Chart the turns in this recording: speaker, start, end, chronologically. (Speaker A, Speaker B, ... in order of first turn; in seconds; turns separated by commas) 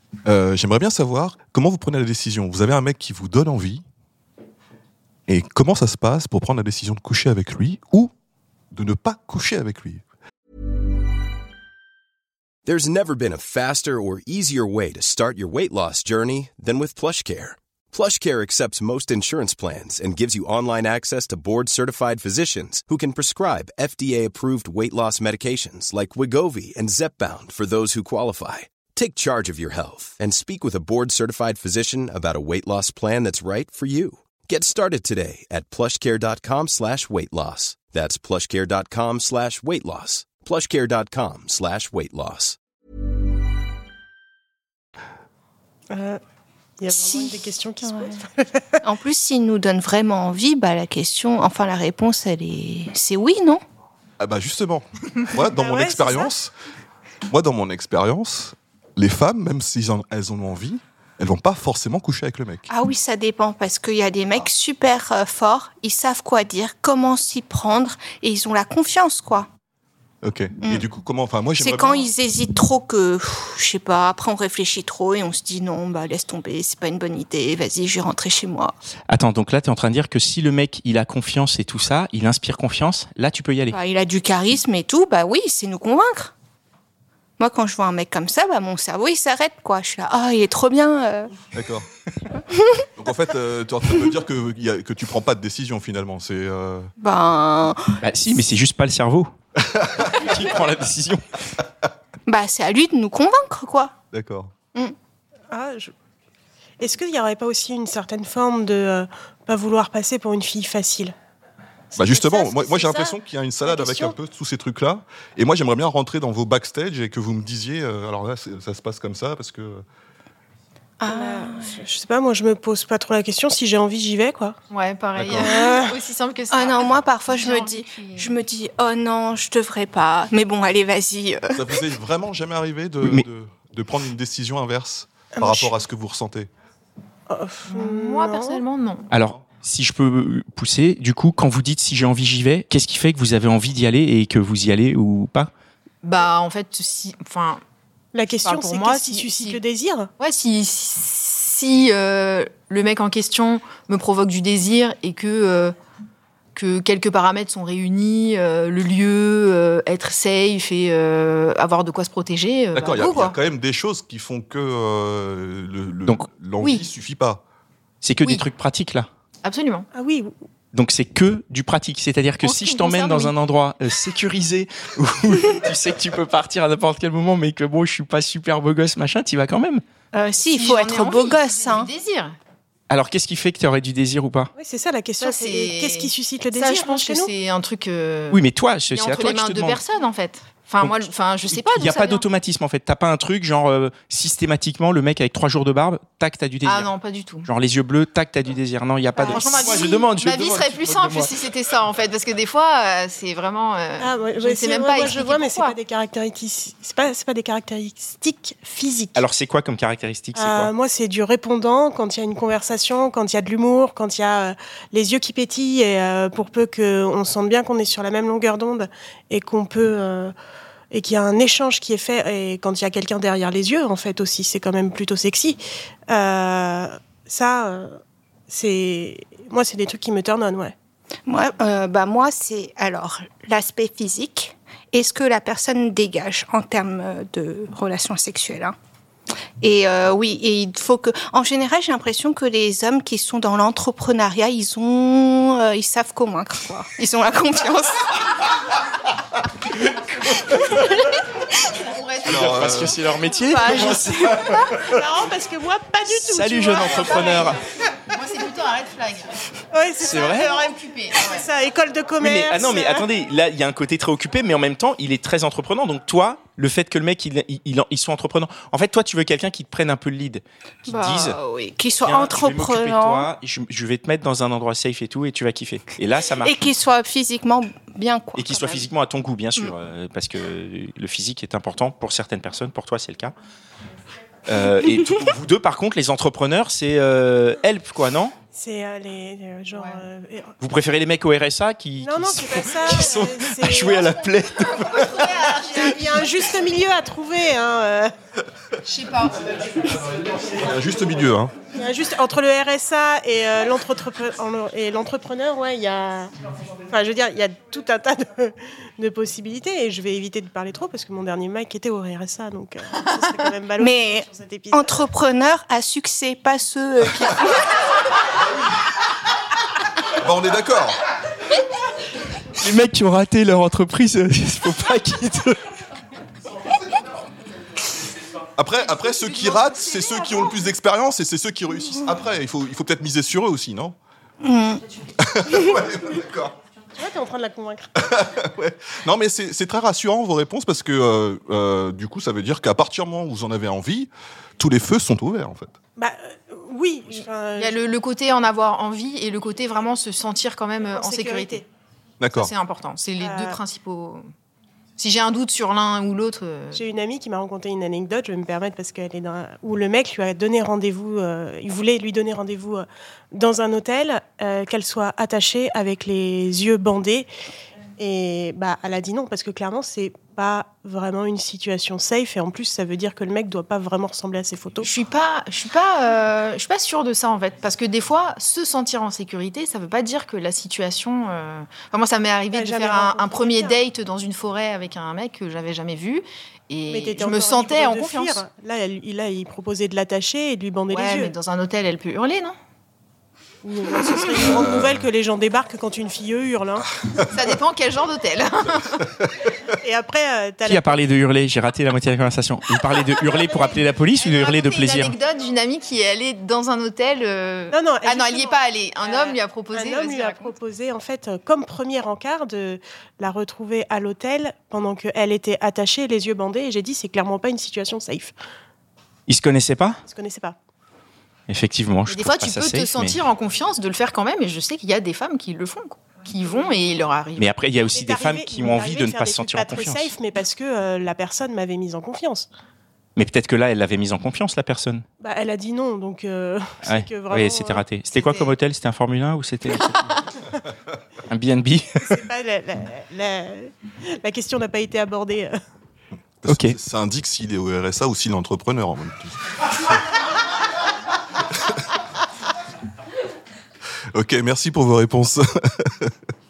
Speaker A: 0.3-3.8, Speaker A: 5.3-8.1, Speaker A: 8.7-10.0, Speaker B: 12.7-42.6, Speaker C: 45.9-46.2, Speaker C: 46.8-48.8, Speaker D: 47.0-48.2, Speaker D: 48.8-53.6, Speaker A: 54.2-56.5, Speaker C: 55.4-56.3, Speaker A: 57.3-62.7, Speaker D: 62.7-69.5, Speaker A: 70.2-72.1, Speaker D: 71.6-78.7, Speaker E: 79.1-83.8, Speaker D: 83.7-86.3, Speaker D: 87.4-91.3, Speaker A: 91.5-91.9, Speaker A: 93.0-96.9, Speaker D: 97.0-98.0, Speaker E: 98.0-99.3, Speaker E: 100.0-101.2, Speaker D: 102.3-103.9, Speaker A: 104.1-104.5, Speaker C: 105.5-105.9, Speaker C: 106.8-111.2, Speaker C: 111.9-114.1, Speaker A: 112.0-119.8, Speaker D: 121.0-121.8, Speaker C: 121.1-124.6, Speaker F: 124.7-128.3, Speaker A: 125.2-125.4, Speaker C: 125.3-126.0, Speaker D: 126.5-131.8, Speaker A: 131.6-136.5, Speaker C: 135.3-135.8, Speaker C: 137.3-138.6, Speaker F: 137.7-139.1, Speaker E: 139.1-145.5, Speaker F: 146.0-147.6, Speaker C: 148.1-150.1, Speaker F: 148.3-149.6, Speaker F: 150.2-155.8, Speaker F: 156.6-163.4, Speaker A: 162.7-167.4, Speaker F: 166.6-166.8, Speaker E: 168.0-169.1, Speaker F: 169.4-169.9, Speaker C: 169.9-170.3, Speaker E: 170.7-179.8, Speaker F: 172.4-173.3, Speaker D: 180.1-181.9, Speaker F: 180.5-182.4, Speaker E: 182.9-184.5, Speaker C: 184.6-187.3, Speaker F: 185.2-192.2, Speaker E: 188.3-189.8, Speaker E: 190.8-196.9, Speaker F: 196.6-197.5, Speaker E: 197.4-201.3, Speaker C: 199.2-199.5, Speaker F: 199.3-205.8, Speaker C: 204.0-209.3, Speaker E: 209.2-210.7, Speaker C: 210.3-220.3, Speaker C: 220.9-230.8, Speaker D: 231.3-238.7, Speaker D: 239.6-247.9, Speaker E: 250.3-250.9, Speaker F: 251.7-252.8, Speaker A: 252.2-253.0, Speaker E: 252.2-255.1, Speaker C: 253.6-253.8, Speaker C: 254.4-257.4, Speaker E: 256.1-257.6, Speaker F: 256.7-259.4, Speaker C: 259.7-263.1, Speaker F: 260.0-261.4, Speaker E: 260.0-260.5, Speaker E: 262.2-271.4, Speaker D: 270.9-273.3, Speaker E: 272.0-276.6, Speaker D: 276.4-278.9, Speaker E: 278.4-283.3, Speaker E: 284.5-288.3, Speaker C: 288.5-290.5, Speaker F: 289.7-290.0, Speaker E: 290.6-295.9, Speaker C: 292.0-294.2, Speaker F: 294.8-296.1, Speaker C: 295.4-298.1, Speaker F: 298.9-299.6, Speaker A: 300.5-301.5, Speaker C: 301.7-306.3, Speaker C: 306.9-315.0, Speaker D: 313.8-317.4, Speaker A: 320.2-321.0, Speaker E: 322.6-325.6, Speaker A: 328.6-334.0, Speaker D: 334.4-334.8, Speaker A: 335.2-336.6, Speaker C: 336.9-337.9, Speaker A: 338.1-345.7, Speaker C: 346.0-347.8, Speaker F: 347.2-351.6, Speaker C: 350.9-351.6, Speaker A: 352.2-352.5, Speaker F: 352.3-354.2, Speaker C: 353.2-353.6, Speaker F: 355.0-356.8, Speaker C: 356.7-367.3, Speaker C: 368.0-374.9, Speaker F: 374.8-388.5, Speaker C: 382.5-383.8, Speaker C: 386.9-391.3, Speaker F: 390.9-392.6, Speaker C: 393.6-396.9, Speaker F: 397.3-399.2, Speaker C: 399.8-401.0, Speaker E: 400.6-405.1, Speaker F: 403.2-410.6, Speaker C: 407.7-418.3, Speaker E: 419.3-420.0, Speaker C: 420.1-420.6, Speaker E: 421.5-423.2, Speaker F: 422.1-427.6, Speaker E: 427.4-430.1, Speaker C: 427.9-432.5, Speaker E: 433.2-435.1, Speaker C: 435.2-437.9, Speaker E: 436.8-440.1, Speaker F: 438.1-438.6, Speaker E: 441.3-442.2, Speaker C: 442.0-445.6, Speaker A: 446.4-449.4, Speaker E: 446.5-446.8, Speaker A: 454.1-456.1